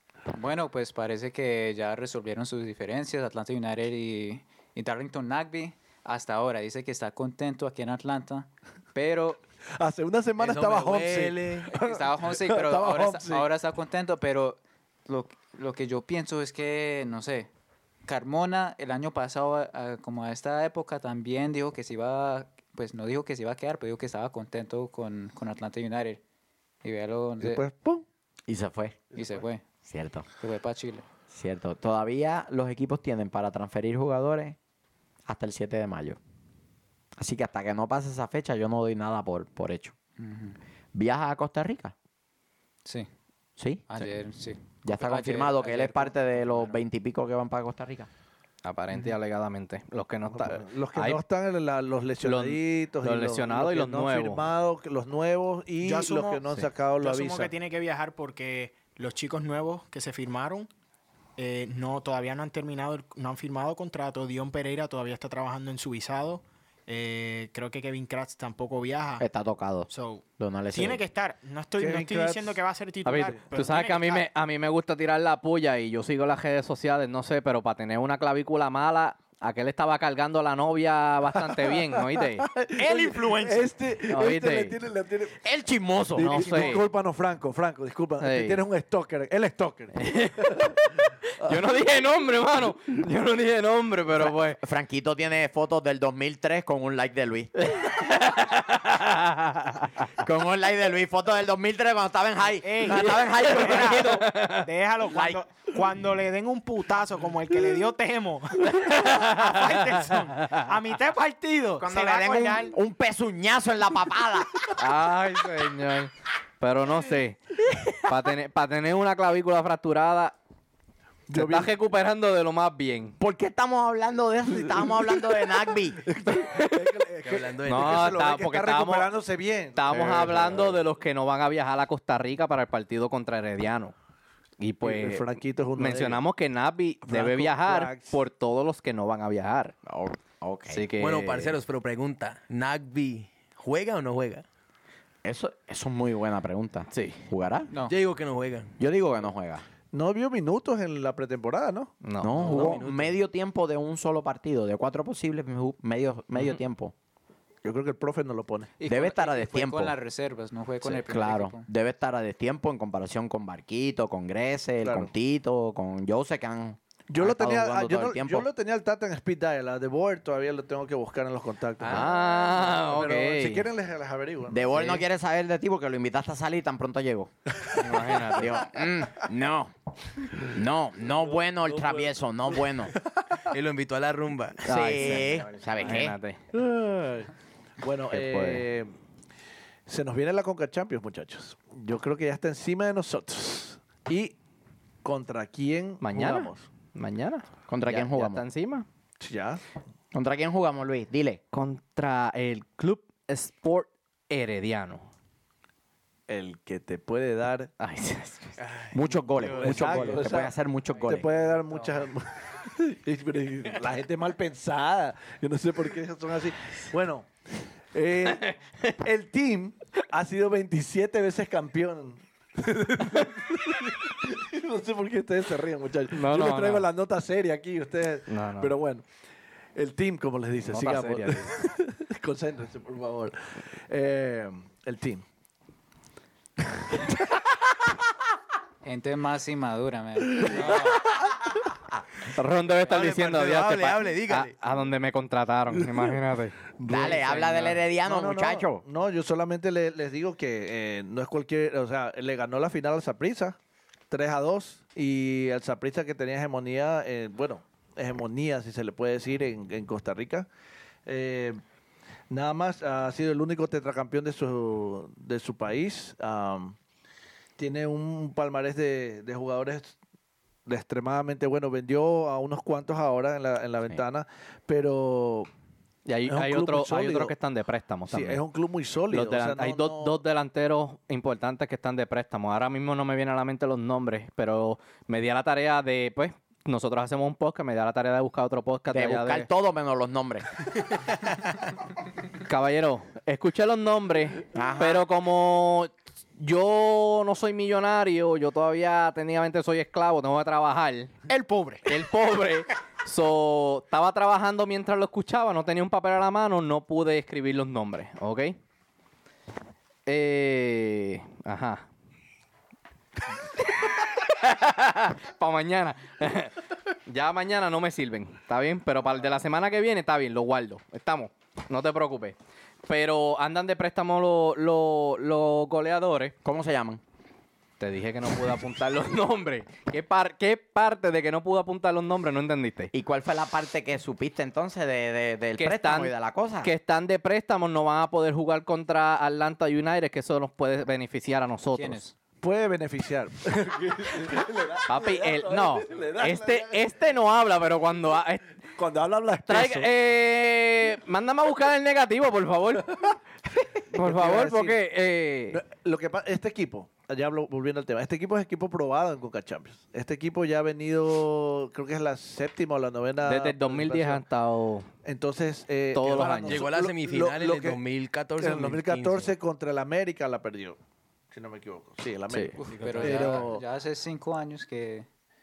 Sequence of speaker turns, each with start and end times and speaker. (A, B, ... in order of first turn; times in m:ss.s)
0:00.3-0:09.4 A
0:09.7-0:13.5 B
0:10.4-0:11.7 C
0:11.8-0:17.5 A
0:18.0-0:26.2 A
0:26.8-0:27.6 A
0:27.4-0:28.0 B
0:28.5-0:29.1 D
0:29.1-0:29.6 A
0:29.8-0:30.3 D
0:30.4-0:31.1 A
0:31.3-0:34.6 D
0:35.2-0:36.2 D
0:37.2-0:39.9 D
0:40.2-0:40.6 A
0:40.9-0:41.9 D
0:42.8-0:43.1 A
0:43.6-0:44.1 D
0:43.9-0:46.8 A
0:44.8-0:48.1 D
0:48.6-0:51.2 E
0:50.3-0:57.5 B
0:52.2-0:54.4 E
0:55.8-0:56.4 F
0:57.0-1:00.7 F
1:01.4-1:09.3 F
1:09.2-1:11.0 D
1:09.9-1:14.2 F
1:11.8-1:12.6 B
1:13.0-1:22.5 E
1:21.4-1:25.4 B
1:22.8-1:23.7 F
1:24.1-1:24.7 E
1:25.4-1:26.8 D
1:26.1-1:31.6 B
1:26.2-1:26.8 E
1:28.2-1:28.6 E
1:29.9-1:30.8 E
1:31.4-1:34.6 E
1:34.6-1:37.5 D
1:37.6-1:39.9 E
1:40.1-1:44.2 D
1:42.6-1:52.7 F
1:43.5-1:44.7 E
1:45.1-1:45.4 D
1:48.6-1:50.6 E
1:51.8-1:54.7 D
1:54.7-2:00.4 E
2:01.3-2:01.7 B
2:01.3-2:03.2 E
2:03.2-2:06.0 D
2:06.0-2:10.7 B
2:06.2-2:07.0 E
2:07.2-2:08.2 C
2:07.6-2:09.1 E
2:09.7-2:13.9 E
2:09.9-2:10.6 D
2:14.6-2:19.7 E
2:14.8-2:16.2 B
2:17.0-2:18.2 B
2:19.8-2:20.9 D
2:20.7-2:21.6 E
2:21.0-2:24.4 C
2:25.2-2:27.7 D
2:26.9-2:27.2 E
2:27.7-2:28.0 A
2:27.8-2:28.7 C
2:28.8-2:29.6 D
2:29.9-2:32.0 B
2:32.0-2:32.8 E
2:32.2-2:36.9 D
2:32.4-2:33.2 C
2:36.3-2:36.6 E
2:37.6-2:38.8 B
2:38.8-2:41.6 A
2:38.8-2:39.9 D
2:40.8-2:48.5 D
2:44.8-2:45.1 B
2:47.1-2:55.0 B
2:51.8-2:53.7 E
2:54.5-2:57.3 D
2:57.7-2:58.6 E
2:58.4-2:59.7 D
3:00.4-3:02.9 D
3:01.1-3:03.4 B
3:03.5-3:04.8 C
3:04.6-3:06.4 E
3:04.7-3:06.2 D
3:06.5-3:08.9 B
3:08.1-3:08.6 E
3:09.9-3:14.4 B
3:15.0-3:16.7 B
3:16.0-3:18.8 E
3:17.7-3:18.4 D
3:19.2-3:19.6 B
3:20.1-3:21.4 D
3:21.5-3:25.1 E
3:26.3-3:27.7 B
3:27.8-3:28.6 E
3:28.6-3:29.9 C
3:28.9-3:31.3 D
3:29.5-3:37.3 B
3:37.9-3:49.0 B
3:38.3-3:38.9 E
3:46.1-3:46.9 E
3:48.3-3:48.7 E
3:49.7-3:55.2 B
3:50.7-3:51.5 E
3:58.8-4:01.0 A
4:00.2-4:01.6 B
4:02.3-4:06.6 E
4:02.7-4:04.6 C
4:05.8-4:06.1 B
4:06.7-4:13.6 B
4:06.8-4:08.8 D
4:14.1-4:20.5 B
4:21.0-4:21.6 B
4:22.3-4:26.8 B
4:27.6-4:30.0 B
4:30.6-4:35.5 B
4:36.0-4:38.4 E
4:36.3-4:37.3 B
4:38.1-4:40.2 B
4:39.1-4:49.5 E
4:48.9-4:50.6 D
4:52.4-5:01.1 E
4:54.5-4:55.0 D
5:01.3-5:01.9 F
5:01.8-5:08.6 E
5:10.0-5:11.8 E
5:13.8-5:22.4 E
5:22.9-5:26.3 E
5:26.4-5:27.0 D
5:27.8-5:32.9 E
5:32.9-5:36.7 D
5:35.6-5:42.0 E
5:41.7-5:42.2 A
5:42.4-5:46.8 B
5:44.9-5:48.5 E
5:48.7-5:49.9 B
5:49.5-5:52.9 E
5:53.9-5:55.6 E
5:54.0-5:54.8 B
5:55.5-6:04.2 B
6:03.2-6:04.9 E
6:05.0-6:07.8 B
6:05.9-6:06.7 E
6:06.3-6:09.3 C
6:08.4-6:10.8 B
6:11.3-6:13.6 B
6:12.3-6:13.2 E
6:12.6-6:15.1 A